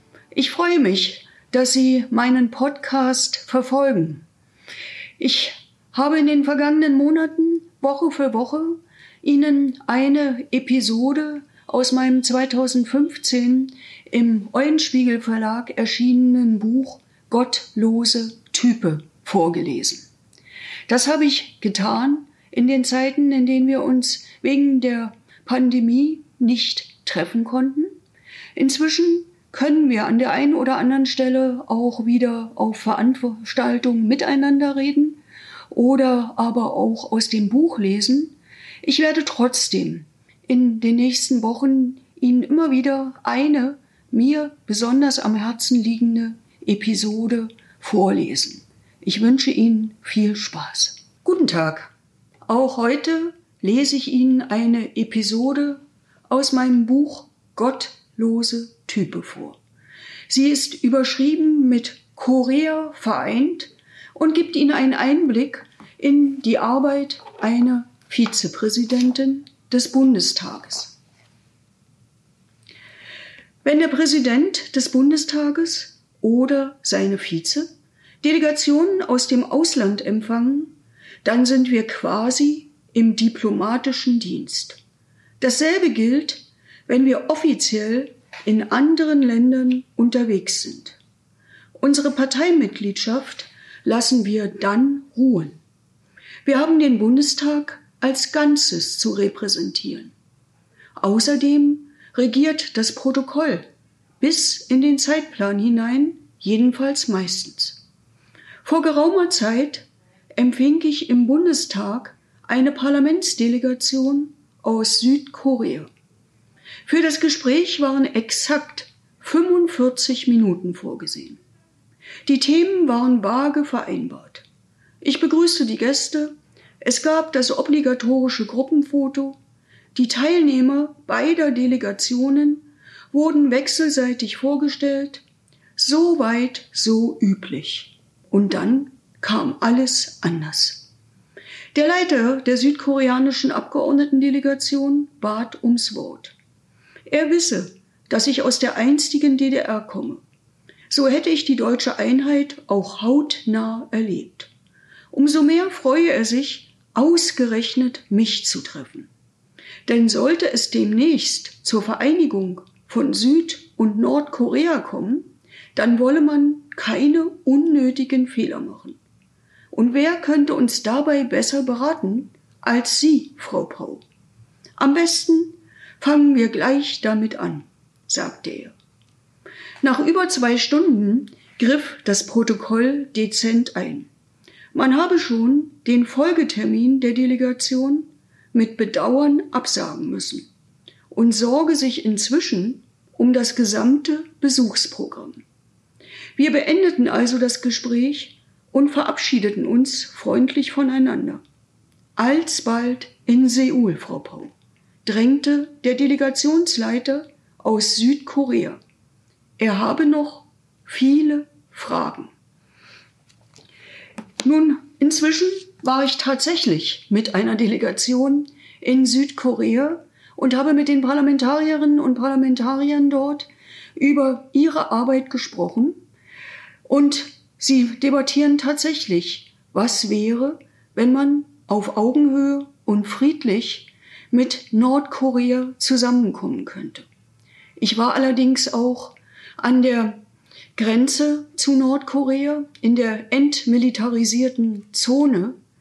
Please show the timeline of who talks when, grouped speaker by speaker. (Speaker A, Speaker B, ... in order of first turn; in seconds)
Speaker A: 0.3-4.2, 5.2-20.1, 20.9-28.0, 28.6-35.2, 35.7-51.9, 52.5-59.6, 60.3-71.0, 73.6-77.7, 78.2-80.7, 81.2-84.8, 85.4-91.0, 91.8-95.6, 96.4-100.1, 101.0-103.7, 104.2-107.8, 108.6-115.9, 116.9-121.4, 122.2-124.5, 125.0-129.4, 129.9-135.2, 135.8-140.9, 141.7-146.3, 147.1-150.2, 150.9-154.5, 155.1-159.1, 159.9-169.0, 169.7-174.1, 174.8-178.8, 179.8-184.1, 184.7-190.5, 191.1-195.4, 196.4-201.4, 202.2-204.5, 205.1-208.8, 209.6-212.3, 214.4-226.0, 226.9-237.1, 237.8-240.2, 240.8-245.6